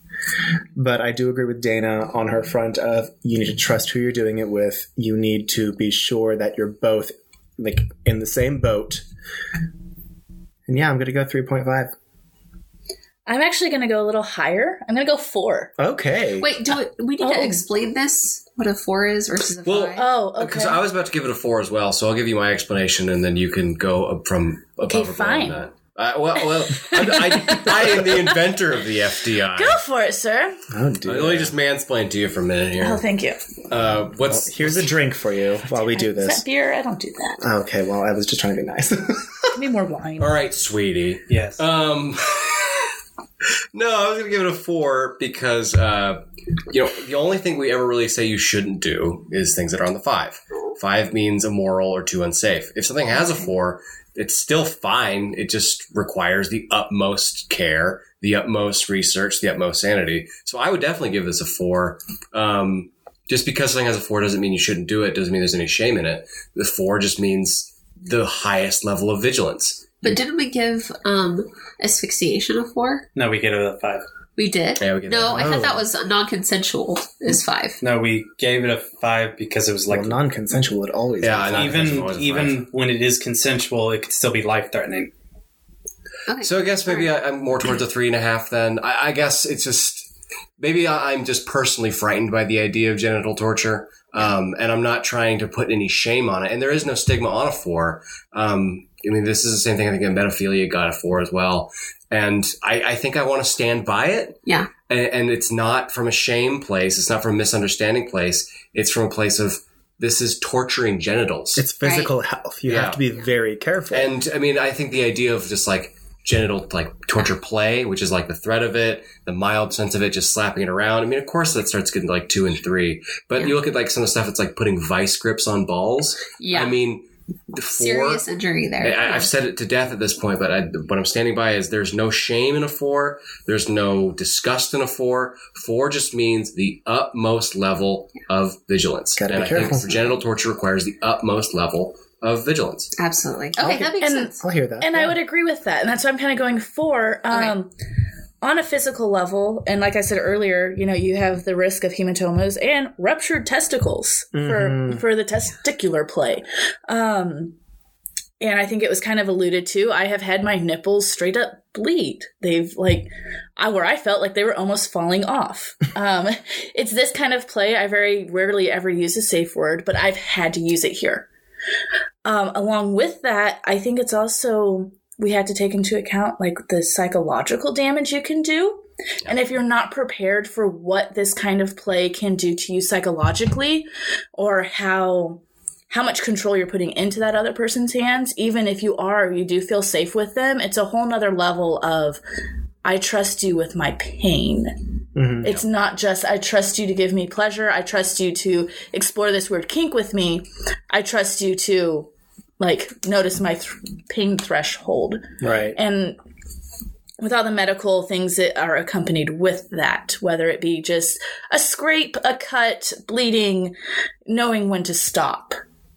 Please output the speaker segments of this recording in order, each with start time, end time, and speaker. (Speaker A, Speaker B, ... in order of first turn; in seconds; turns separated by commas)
Speaker A: 0.8-9.0, Speaker A: 10.7-11.9, Speaker B: 13.2-15.7, Speaker A: 15.8-16.5, Speaker C: 16.4-20.0, Speaker B: 17.2-17.6, Speaker D: 19.6-29.8, Speaker B: 19.9-20.8, Speaker B: 24.9-25.6, Speaker B: 26.8-28.4, Speaker B: 29.5-30.6, Speaker A: 30.7-31.5, Speaker D: 31.0-33.0, Speaker B: 32.8-33.4, Speaker D: 33.7-34.9, Speaker A: 34.3-36.4, Speaker B: 35.9-37.4, Speaker A: 37.4-39.5, Speaker B: 39.5-40.4, Speaker D: 40.2-42.8, Speaker E: 41.3-41.6, Speaker D: 43.7-70.0, Speaker B: 53.2-53.5, Speaker C: 70.0-73.1, Speaker E: 73.2-74.0, Speaker C: 74.3-77.8, Speaker D: 74.8-75.7, Speaker A: 75.3-75.8, Speaker E: 77.8-80.2, Speaker A: 79.9-82.0, Speaker D: 81.2-82.6, Speaker E: 81.5-85.1, Speaker C: 86.3-87.1, Speaker D: 86.4-111.6, Speaker A: 111.5-114.1, Speaker C: 111.8-112.1, Speaker D: 112.7-113.0, Speaker D: 113.9-128.2, Speaker C: 126.4-126.8, Speaker C: 127.7-129.3, Speaker D: 128.8-142.9, Speaker A: 139.2-140.1, Speaker C: 142.9-144.4, Speaker A: 143.6-143.9, Speaker B: 144.0-147.7, Speaker A: 144.4-145.2, Speaker B: 148.4-157.6, Speaker A: 154.3-155.0, Speaker B: 158.4-171.3, Speaker B: 172.2-192.2, Speaker B: 192.8-194.8, Speaker A: 195.1-195.6, Speaker B: 195.4-206.2, Speaker A: 205.4-205.8, Speaker B: 207.2-213.7, Speaker B: 214.2-215.6